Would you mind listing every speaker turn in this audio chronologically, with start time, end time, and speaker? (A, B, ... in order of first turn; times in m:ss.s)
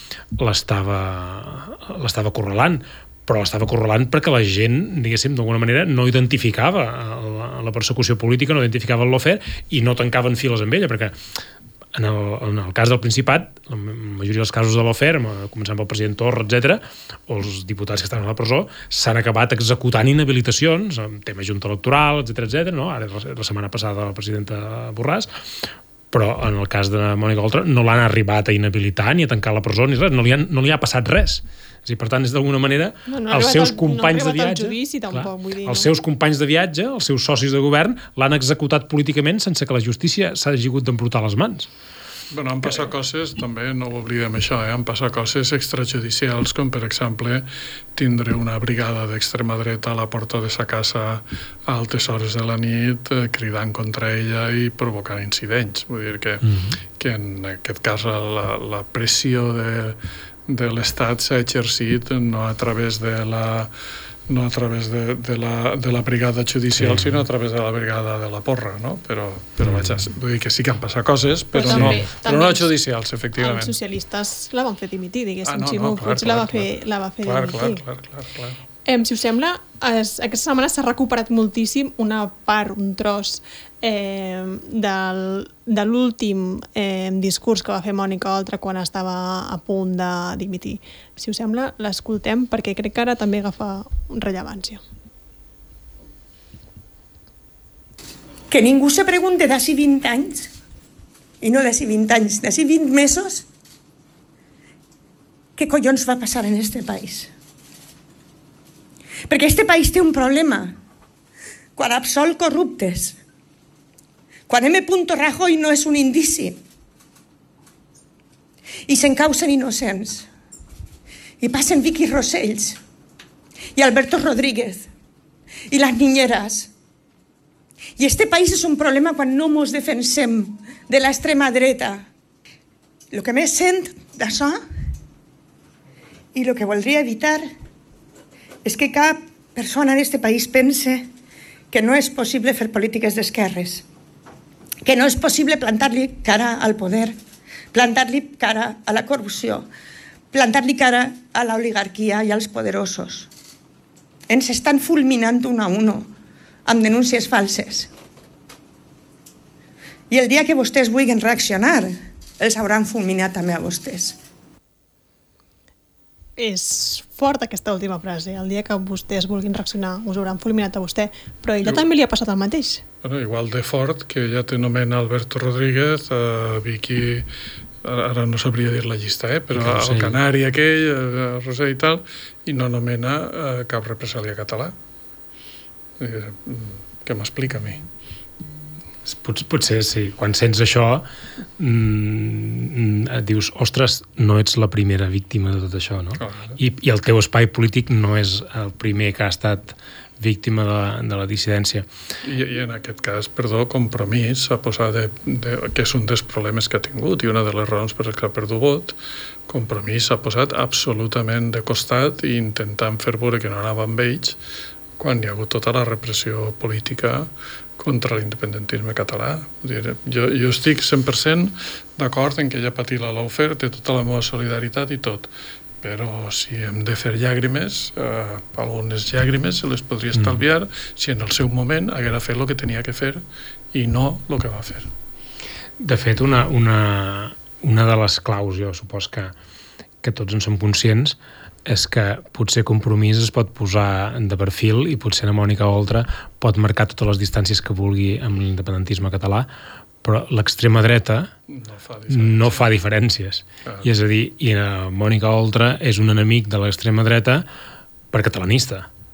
0:00.4-0:11.2 A
0:11.9-0:41.7 A
0:33.1-0:35.9 B
0:42.3-0:56.4 C
0:56.4-0:56.8 A
0:57.0-1:00.0 C
1:00.5-1:03.7 C
1:04.3-1:13.8 C
1:06.8-1:07.3 A
1:09.6-1:10.0 A
1:11.5-1:12.7 B
1:11.7-1:12.0 A
1:13.4-1:17.8 B
1:15.4-1:18.6 C
1:18.8-1:34.8 B
1:38.5-1:40.5 D
1:41.4-1:43.5 D
1:45.6-1:47.3 D
1:49.3-1:50.8 D
1:51.8-1:53.2 D
1:54.5-1:56.6 D
1:58.9-2:00.3 D
2:01.4-2:02.8 D
2:03.7-2:04.9 D
2:05.7-2:06.7 D
2:08.0-2:12.1 D
2:13.1-2:14.6 D
2:16.3-2:17.5 D
2:18.6-2:21.1 D
2:21.7-2:23.9 D
2:24.8-2:27.2 D
2:27.7-2:29.7 D
2:30.3-2:33.3 D
2:34.3-2:36.1 D
2:36.6-2:37.9 D
2:40.1-2:44.2 D
2:46.4-2:52.8 B
2:53.0-2:57.3 C
2:57.8-3:04.8 C
2:59.6-3:00.2 A
3:06.0-3:07.8 C
3:09.0-3:11.1 A
3:11.6-3:21.9 A
3:16.2-3:16.6 C
3:22.2-3:29.0 C
3:29.5-3:34.4 C
3:35.0-3:45.3 C
3:45.8-3:54.9 C
3:50.2-3:50.4 A
3:55.8-3:59.3 A
4:00.0-4:09.5 A
4:10.0-4:11.3 A
4:11.5-4:12.7 C
4:12.1-4:17.4 A
4:18.1-4:18.9 A